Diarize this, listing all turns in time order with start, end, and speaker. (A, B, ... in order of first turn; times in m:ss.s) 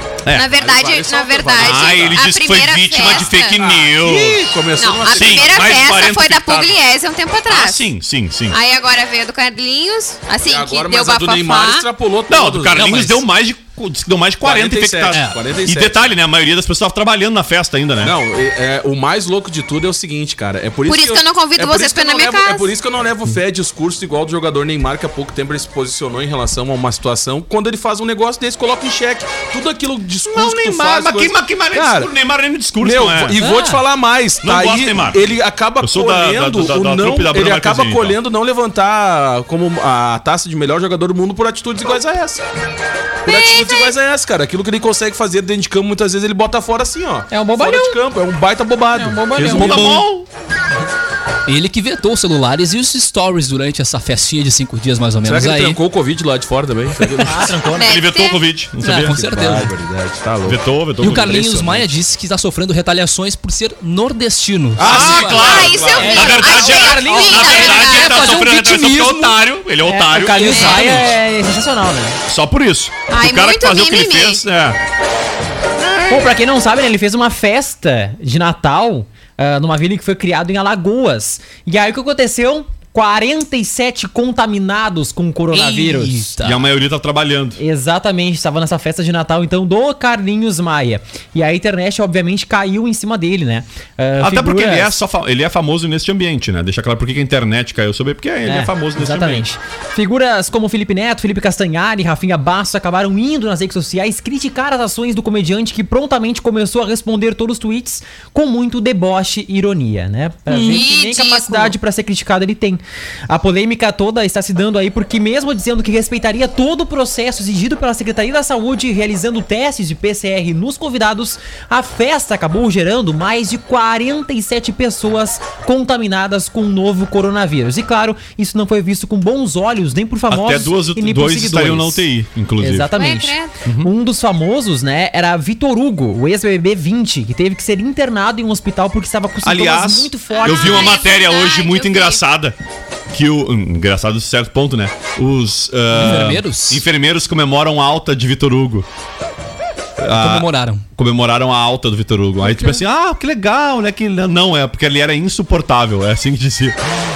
0:00.2-0:00.6 A
0:00.3-0:03.6 B
0:00.5-0:02.2 C
0:01.6-0:04.5 A
0:03.2-0:05.9 C
0:04.8-0:07.8 B
0:05.1-0:06.8 A
0:07.5-0:08.6 A
0:08.5-0:11.9 B
0:10.4-0:13.2 C
0:12.3-0:18.2 A
0:14.4-0:16.1 C
0:15.1-0:15.4 D
0:18.0-0:32.1 C
0:20.8-0:22.7 B
0:30.2-0:33.5 A
0:32.8-0:42.4 C
0:34.4-0:38.2 A
0:43.2-0:50.0 C
0:43.2-0:43.9 B
0:47.3-0:48.0 E
0:48.9-0:50.0 E
0:49.4-0:50.3 A
0:51.4-0:55.8 D
0:55.2-0:57.6 C
0:57.2-0:57.9 E
0:57.8-0:58.4 B
0:57.8-0:59.6 A
0:58.8-0:59.7 D
0:59.0-1:00.6 C
1:00.4-1:01.9 A
1:01.0-1:05.6 D
1:04.8-1:05.9 C
1:04.8-1:10.8 A
1:05.2-1:08.4 B
1:05.9-1:08.0 E
1:07.4-1:09.4 D
1:09.8-1:12.2 E
1:10.3-1:11.2 D
1:12.3-1:14.8 A
1:13.1-1:14.4 B
1:15.8-1:16.3 A
1:16.1-1:26.2 E
1:25.5-1:26.6 D
1:26.4-1:27.6 A
1:27.6-1:35.0 E
1:34.2-1:39.4 A
1:38.4-2:12.0 E
1:50.5-1:50.8 D
1:50.5-1:51.7 B
2:10.3-2:12.9 A
2:12.6-2:21.0 E
2:12.9-2:13.5 B
2:13.6-2:13.9 A
2:19.4-2:22.6 A
2:20.3-2:22.2 B
2:23.1-2:28.9 A
2:25.9-2:26.8 D
2:30.0-2:36.8 A
2:30.2-2:30.8 D